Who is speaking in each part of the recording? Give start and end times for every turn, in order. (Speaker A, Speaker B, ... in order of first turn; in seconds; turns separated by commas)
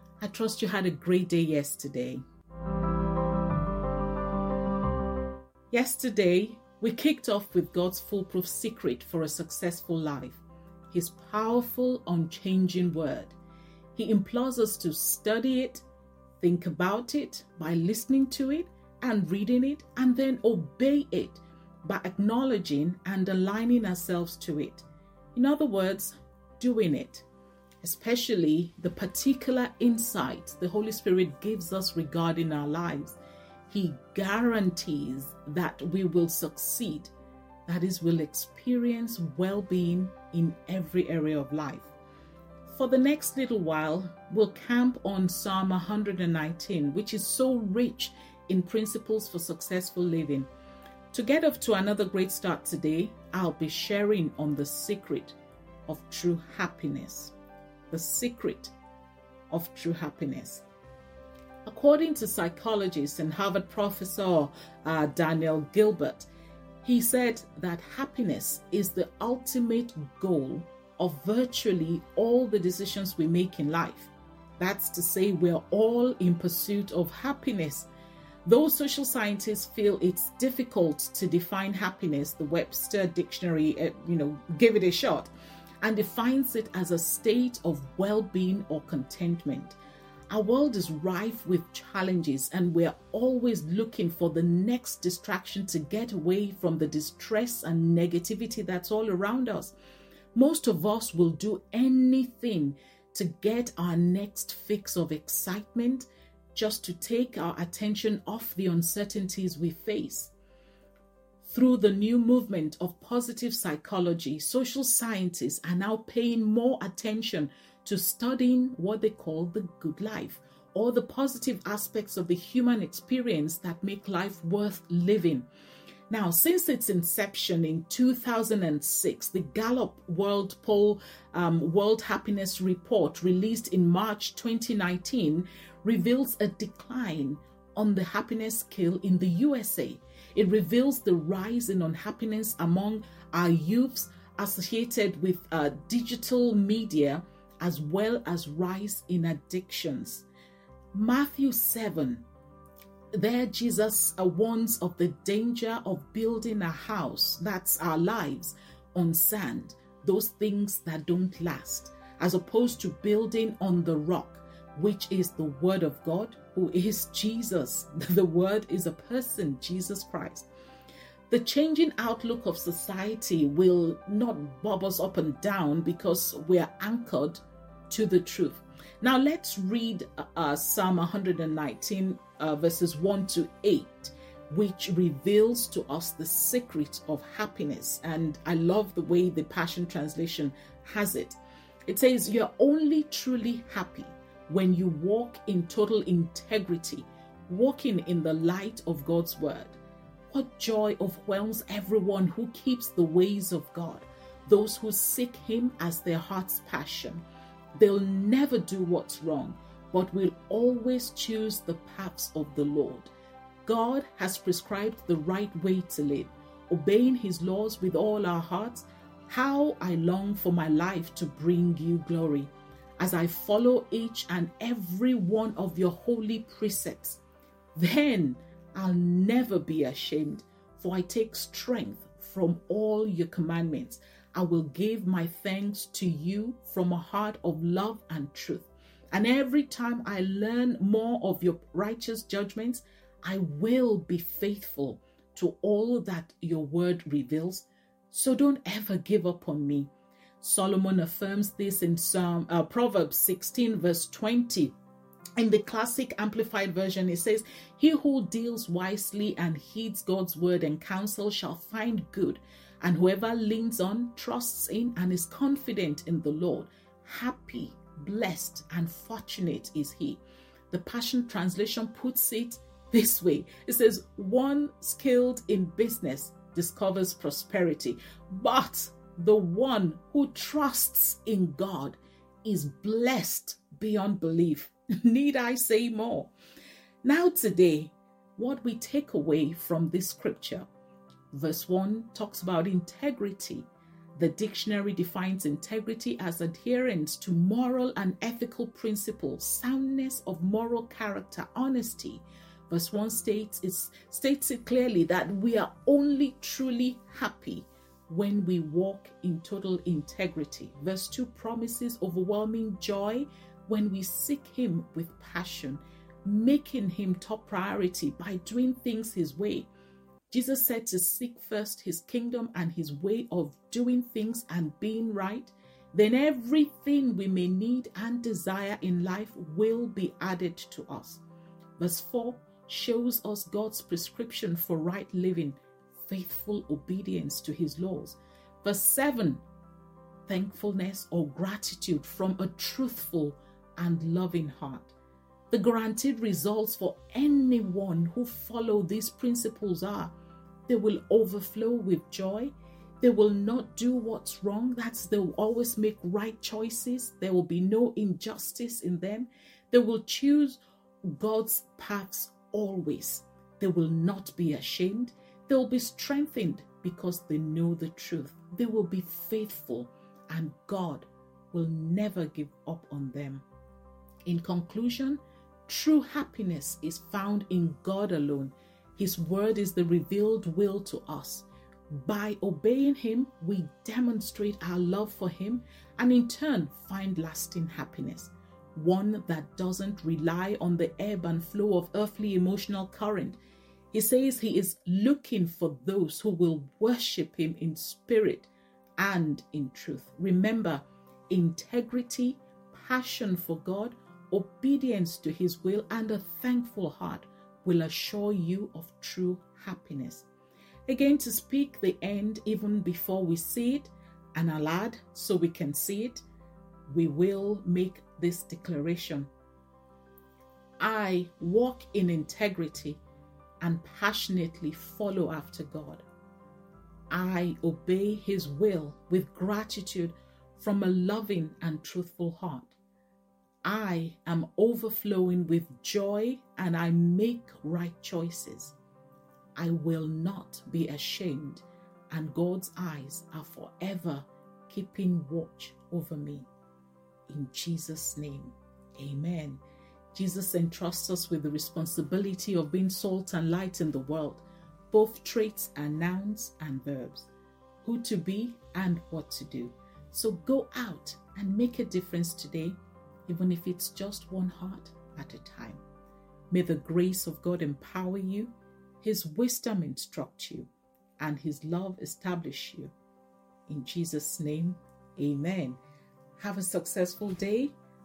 Speaker A: 0.2-2.2, Speaker A: 5.7-13.3, Speaker A: 13.9-15.8, Speaker A: 16.4-27.2, Speaker A: 27.8-33.2, Speaker A: 33.7-37.1, Speaker A: 37.7-41.9, Speaker A: 42.7-50.5, Speaker A: 51.1-57.3, Speaker A: 57.9-58.7, Speaker A: 59.5-60.6, Speaker A: 61.6-66.3, Speaker A: 66.8-77.9, Speaker A: 78.4-85.3, Speaker A: 85.8-89.8, Speaker A: 90.3-99.7, Speaker A: 100.3-110.3, Speaker A: 111.4-125.5, Speaker A: 126.1-150.2, Speaker A: 150.9-152.2, Speaker A: 153.1-170.5, Speaker A: 171.3-199.8, Speaker A: 200.3-207.2, Speaker A: 207.8-213.1, Speaker A: 213.6-227.2, Speaker A: 227.8-249.9, Speaker A: 250.4-254.7, Speaker A: 255.4-286.3, Speaker A: 287.0-290.6, Speaker A: 291.3-319.7, Speaker A: 320.3-331.2, Speaker A: 331.8-339.4, Speaker A: 340.3-344.9, Speaker A: 345.5-350.1, Speaker A: 350.7-373.4, Speaker A: 374.2-393.4, Speaker A: 393.9-410.3, Speaker A: 410.9-416.2, Speaker A: 416.9-419.3, Speaker A: 420.8-423.0, Speaker A: 423.6-426.0, Speaker A: 427.1-432.8, Speaker A: 433.6-438.7, Speaker A: 439.6-446.5, Speaker A: 447.3-449.6, Speaker A: 450.1-457.3, Speaker A: 457.8-465.8, Speaker A: 466.5-472.9, Speaker A: 473.7-475.8, Speaker A: 476.4-477.7